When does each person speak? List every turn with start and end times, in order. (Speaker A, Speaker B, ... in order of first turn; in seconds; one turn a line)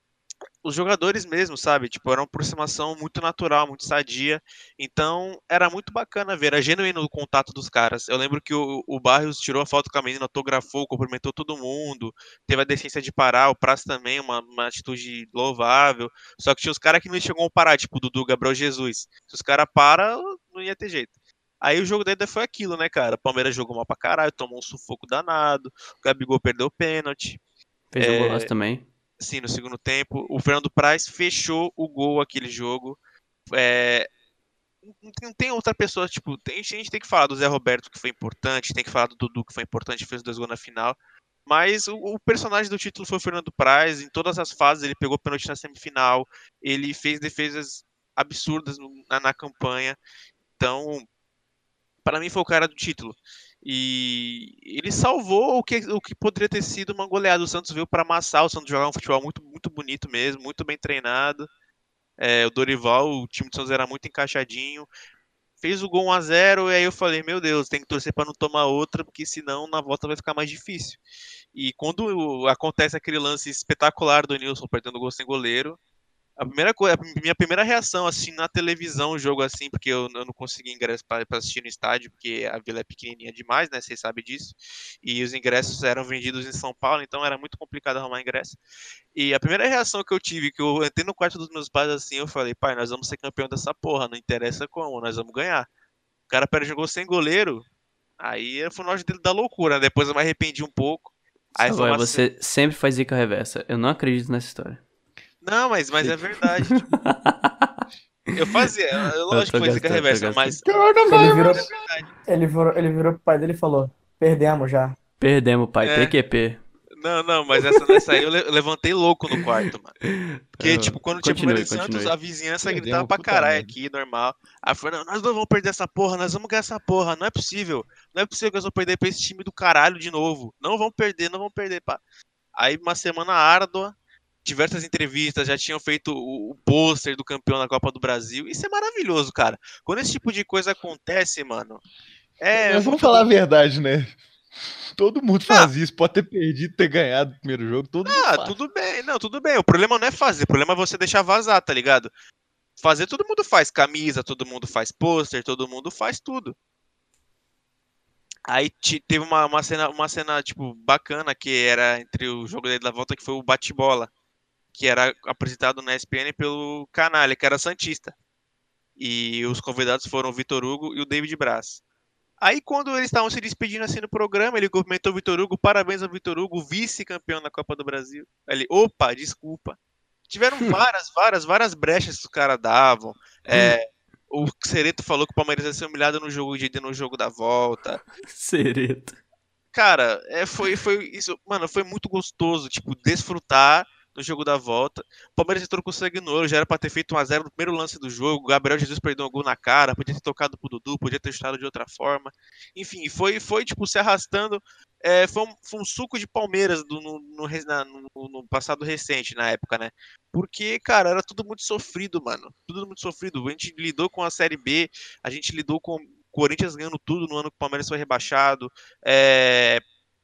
Speaker A: 0.6-27.4
Speaker B: 27.9-28.8
Speaker A: 28.0-28.5
Speaker A: 29.2-33.0
Speaker A: 33.5-34.1
Speaker A: 34.9-50.0
Speaker A: 50.6-51.0
Speaker A: 52.0-61.5
Speaker A: 62.2-64.9
Speaker A: 65.6-71.0
Speaker A: 71.5-75.8
Speaker A: 76.4-88.6
Speaker A: 89.1-95.7
Speaker A: 96.3-97.6
Speaker A: 98.2-102.2
Speaker B: 101.6-104.8
Speaker A: 105.4-106.9
Speaker B: 106.7-107.8
Speaker A: 108.3-112.1
Speaker B: 109.3-110.6
Speaker C: 110.7-111.7
Speaker D: 111.1-111.7
Speaker D: 112.2-115.0
Speaker B: 115.2-116.6
Speaker A: 115.8-116.1
Speaker A: 117.0-120.0
Speaker B: 120.0-122.1
Speaker A: 120.6-132.0
Speaker C: 122.6-123.7
Speaker A: 132.5-141.8
Speaker A: 142.4-143.3
Speaker C: 142.5-144.2
Speaker C: 144.9-148.6
Speaker A: 148.1-152.1
Speaker A: 152.8-156.6
Speaker A: 158.5-164.1
Speaker A: 164.7-168.1
Speaker A: 169.0-171.8
Speaker A: 172.4-179.8
Speaker A: 180.3-188.0
Speaker B: 183.5-183.8
Speaker B: 188.3-189.2
Speaker A: 189.7-219.8